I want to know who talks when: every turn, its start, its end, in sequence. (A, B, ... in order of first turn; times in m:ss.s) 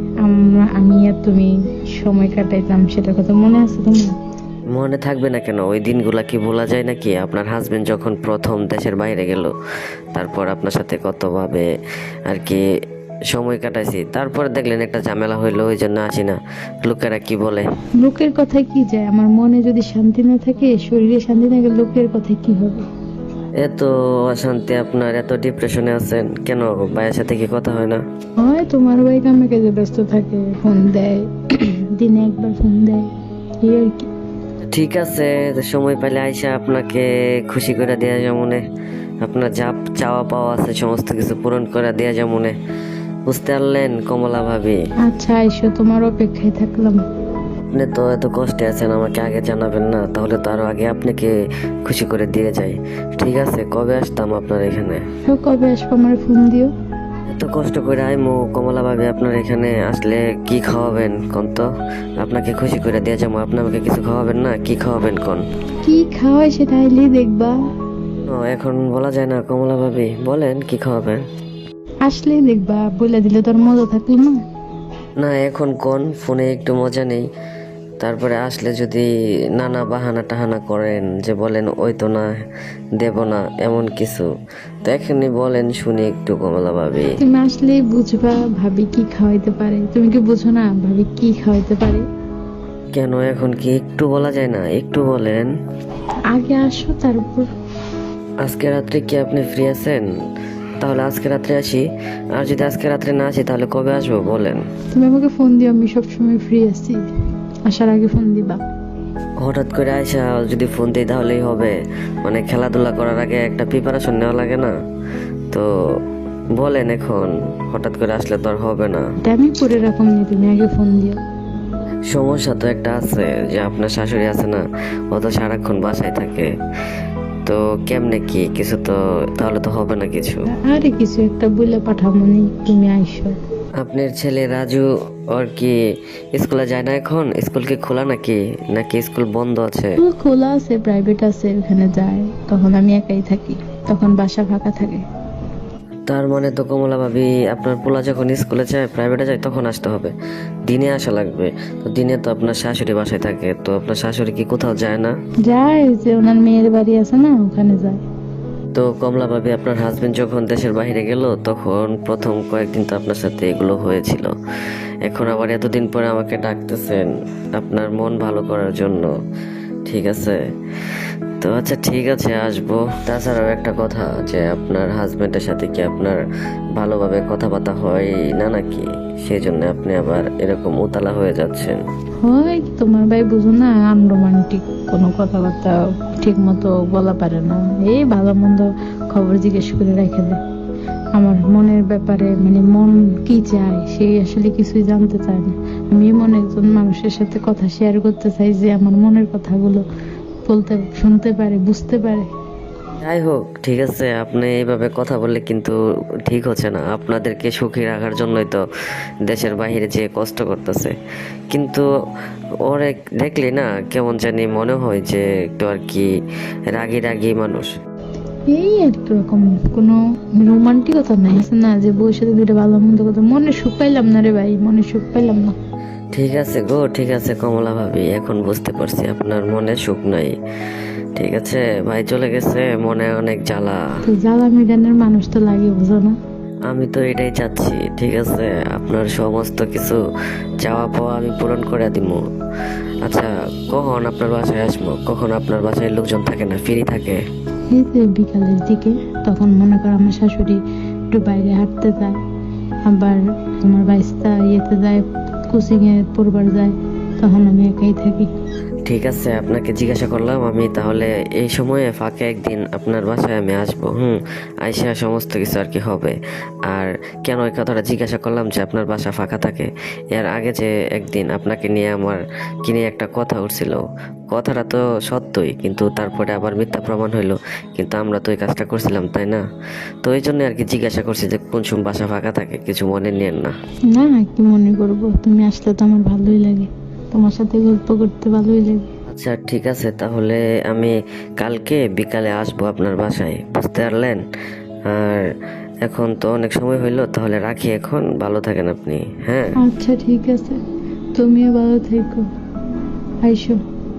0:00.2-0:04.2 A
0:04.7-0:09.5 B
0:10.1-0:11.7 B
0:12.3-0:12.6 B
0:13.3-0:17.7 B
0:18.0-0:22.8 A
0:23.6-0:28.0 B
0:28.4-0:33.1 A
0:33.6-0:34.1 A
0:34.7-0:38.6 B
0:39.2-0:42.5 B
0:43.3-0:44.8 B
0:45.1-0:47.0 A
0:47.7-0:51.3 B
0:51.9-0:55.0 B
0:55.3-0:56.7 A
0:57.4-1:01.7 B
1:02.2-1:05.4 B
1:05.8-1:07.6 A
1:08.3-1:11.2 B
1:12.1-1:14.4 A
1:15.2-1:17.3 B
1:18.0-1:22.4 B
1:23.0-1:24.3 B
1:24.8-1:27.2 B
1:27.2-1:32.0 A
1:33.0-1:35.5 B
1:36.3-1:37.5 A
1:38.4-1:40.1 B
1:40.8-1:44.6 B
1:44.9-1:47.0 A
1:47.7-1:48.6 A
1:49.4-1:54.7 B
1:56.6-1:59.0 B
1:59.2-2:01.2 A
2:02.1-2:06.5 B
2:07.5-2:10.4 B
2:10.5-2:13.4 A
2:13.8-2:15.8 B
2:16.4-2:20.0 B
2:20.0-2:25.0 A
2:26.1-2:30.1 B
2:30.7-2:35.2 B
2:35.5-2:38.0 A
2:38.7-2:44.3 B
2:45.0-2:49.1 B
2:49.9-2:50.4 B
2:51.4-2:56.2 B
2:56.8-3:01.8 B
3:02.2-3:10.4 A
3:11.2-3:19.8 A
3:20.5-3:22.3 A
3:23.0-3:28.6 B
3:29.3-3:30.9 B
3:31.5-3:31.9 B
3:32.7-3:36.1 B
3:36.7-3:37.7 B
3:38.5-3:45.6 A
3:46.1-3:50.3 B
3:51.2-3:53.8 B
3:54.1-3:56.2 A
3:56.7-4:00.0 B
4:00.6-4:02.2 B
4:03.0-4:07.2 B
4:07.7-4:10.6 A
4:11.1-4:12.2 A
4:12.9-4:18.3 A
4:18.9-4:26.2 B
4:26.7-4:39.4 B
4:40.0-4:43.5 B
4:43.9-4:48.9 A
4:49.1-4:54.2 B
4:54.9-4:55.3 B
4:55.9-4:59.6 B
4:59.6-5:00.6 A
5:01.2-5:02.3 A
5:03.2-5:03.6 A